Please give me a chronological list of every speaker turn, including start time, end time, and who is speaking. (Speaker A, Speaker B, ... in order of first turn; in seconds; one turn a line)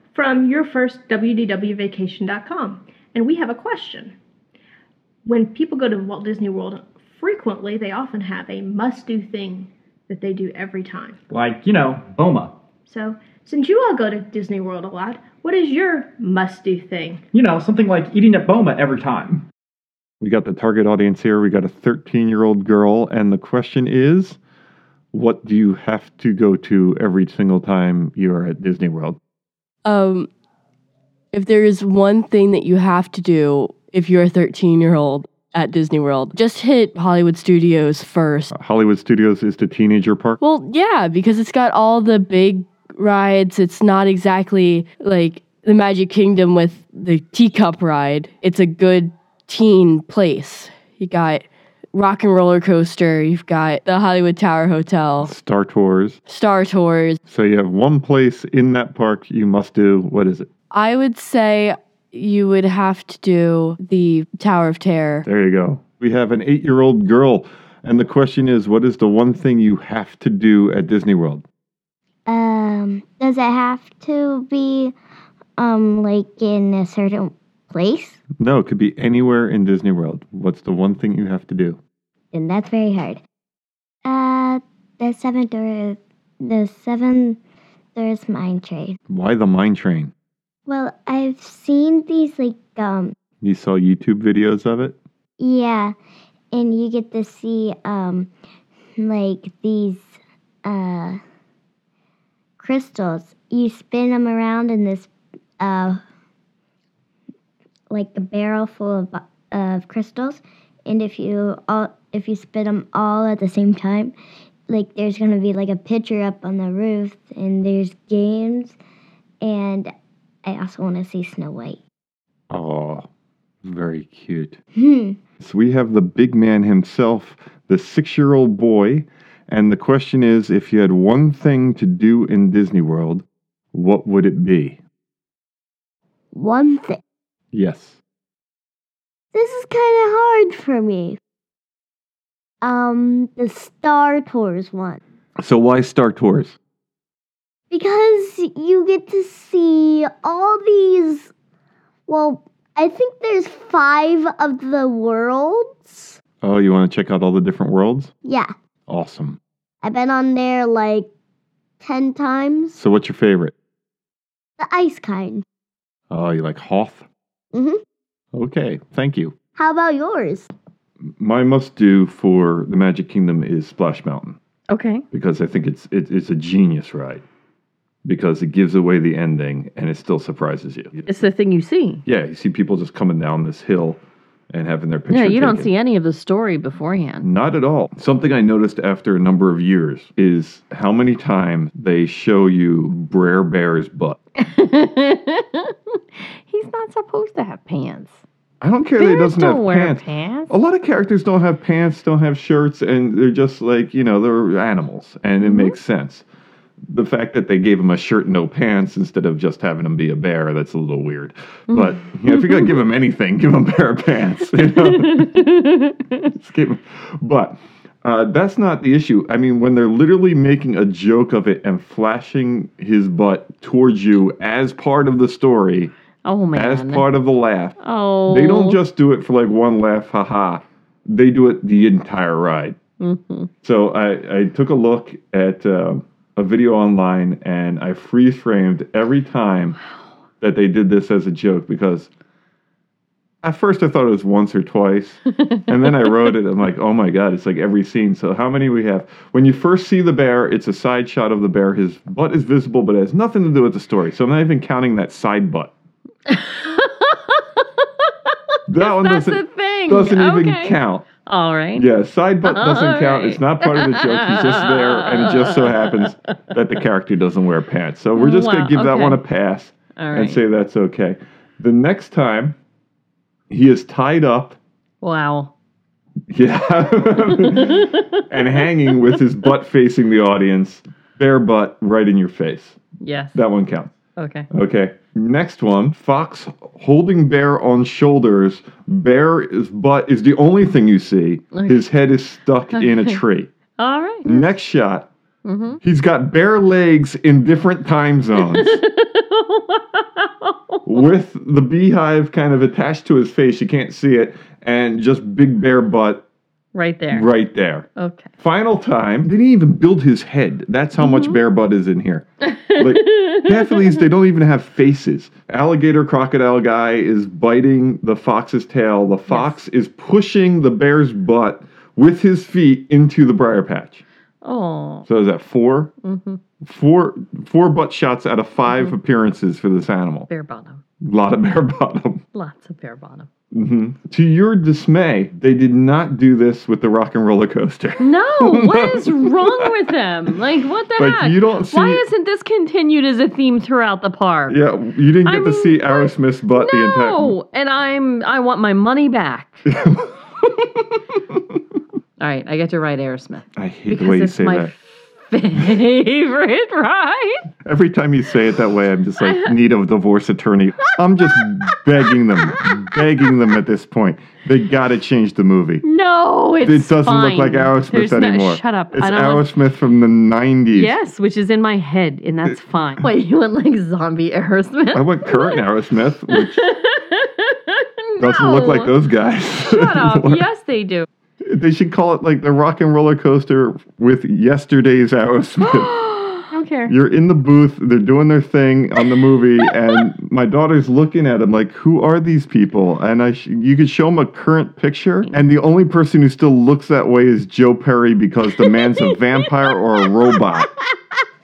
Speaker A: 0.1-4.2
Speaker A: 5.2-11.2
Speaker B: 11.3-12.6
Speaker A: 12.9-17.2
Speaker B: 17.3-19.4
Speaker C: 20.2-24.4
Speaker C: 25.1-29.2
Speaker D: 29.9-30.3
Speaker D: 31.3-38.5
Speaker C: 38.5-40.4
Speaker D: 40.4-55.3
Speaker C: 55.2-56.2
Speaker D: 56.3-57.2
Speaker C: 57.3-60.5
Speaker D: 60.7-65.3
Speaker C: 65.2-71.4
Speaker E: 72.3-75.0
Speaker E: 75.6-78.2
Speaker C: 78.4-81.8
Speaker E: 82.3-83.2
Speaker E: 84.0-87.4
Speaker E: 88.0-89.0
Speaker C: 89.1-90.1
Speaker E: 90.7-93.1
Speaker C: 93.4-95.0
Speaker E: 95.4-95.9
Speaker E: 96.5-98.3
Speaker E: 99.0-100.1
Speaker E: 100.7-101.2
Speaker E: 102.6-106.0
Speaker E: 107.9-114.1
Speaker E: 114.7-118.8
Speaker E: 119.4-119.9
Speaker E: 120.5-121.8
Speaker C: 122.5-123.1
Speaker C: 123.6-124.6
Speaker E: 124.8-125.2
Speaker C: 125.4-134.8
Speaker E: 136.3-137.0
Speaker C: 137.5-138.0
Speaker E: 139.3-141.2
Speaker E: 142.6-145.0
Speaker C: 145.4-146.6
Speaker E: 147.7-151.3
Speaker E: 152.1-156.2
Speaker C: 156.4-158.1
Speaker E: 158.3-158.5
Speaker C: 158.9-159.4
Speaker E: 159.8-161.1
Speaker E: 161.8-162.8
Speaker C: 162.7-163.5
Speaker E: 164.6-165.4
Speaker C: 166.1-167.1
Speaker E: 167.5-167.8
Speaker C: 168.3-169.3
Speaker E: 169.6-170.5
Speaker C: 171.2-174.4
Speaker F: 174.7-175.1
Speaker C: 175.1-177.2
Speaker C: 178.1-181.1
Speaker F: 181.1-182.0
Speaker C: 182.1-185.7
Speaker F: 185.1-187.3
Speaker C: 187.2-194.2
Speaker F: 194.4-198.2
Speaker C: 198.6-206.3
Speaker F: 199.0-200.5
Speaker F: 205.4-205.8
Speaker C: 206.9-215.3
Speaker F: 211.7-212.8
Speaker F: 214.6-216.3
Speaker C: 216.3-225.9
Speaker F: 226.2-227.1
Speaker C: 226.5-227.8
Speaker F: 227.8-228.8
Speaker C: 228.3-232.8
Speaker F: 233.0-233.5
Speaker C: 233.6-239.8
Speaker C: 240.4-242.1
Speaker C: 243.4-255.7
Speaker F: 245.5-246.3
Speaker F: 256.3-257.4
Speaker C: 258.7-261.1
Speaker F: 258.8-261.9
Speaker C: 261.8-272.6
Speaker F: 262.4-266.1
Speaker F: 268.2-269.2
Speaker F: 270.0-270.4
Speaker C: 273.5-274.6
Speaker F: 275.0-275.5
Speaker C: 276.3-282.8
Speaker F: 277.2-279.2
Speaker F: 283.0-283.4
Speaker C: 283.4-283.9
Speaker F: 284.2-284.5
Speaker C: 284.5-293.5
Speaker F: 291.5-291.9
Speaker F: 292.7-293.2
Speaker F: 293.8-294.5
Speaker C: 294.2-295.1
Speaker F: 295.4-295.8
Speaker C: 295.8-298.8
Speaker F: 298.5-301.1
Speaker C: 300.9-306.3
Speaker F: 306.7-307.3
Speaker C: 307.1-307.9
Speaker F: 308.0-308.3
Speaker C: 308.4-324.0
Speaker F: 311.0-311.4
Speaker F: 312.5-314.0
Speaker F: 319.3-319.6
Speaker F: 324.4-325.1
Speaker C: 325.1-325.9
Speaker F: 326.0-326.4
Speaker C: 326.6-330.3
Speaker F: 328.6-328.9
Speaker F: 330.3-330.8
Speaker C: 331.0-332.2
Speaker F: 332.3-333.3
Speaker C: 333.5-339.7
Speaker F: 338.0-344.6
Speaker C: 340.9-342.0
Speaker C: 344.5-347.4
Speaker F: 345.2-349.6
Speaker C: 349.7-350.2
Speaker F: 352.2-357.4
Speaker C: 353.6-354.7
Speaker C: 357.6-365.8
Speaker F: 359.2-359.5
Speaker F: 362.1-362.8
Speaker F: 365.8-369.5
Speaker C: 366.6-371.0
Speaker F: 370.7-375.6
Speaker C: 374.9-376.6
Speaker F: 376.3-378.9
Speaker C: 378.2-380.5
Speaker F: 379.6-381.1
Speaker C: 381.4-385.9
Speaker F: 385.6-386.9
Speaker C: 386.9-400.7
Speaker F: 398.6-399.4
Speaker F: 400.1-400.4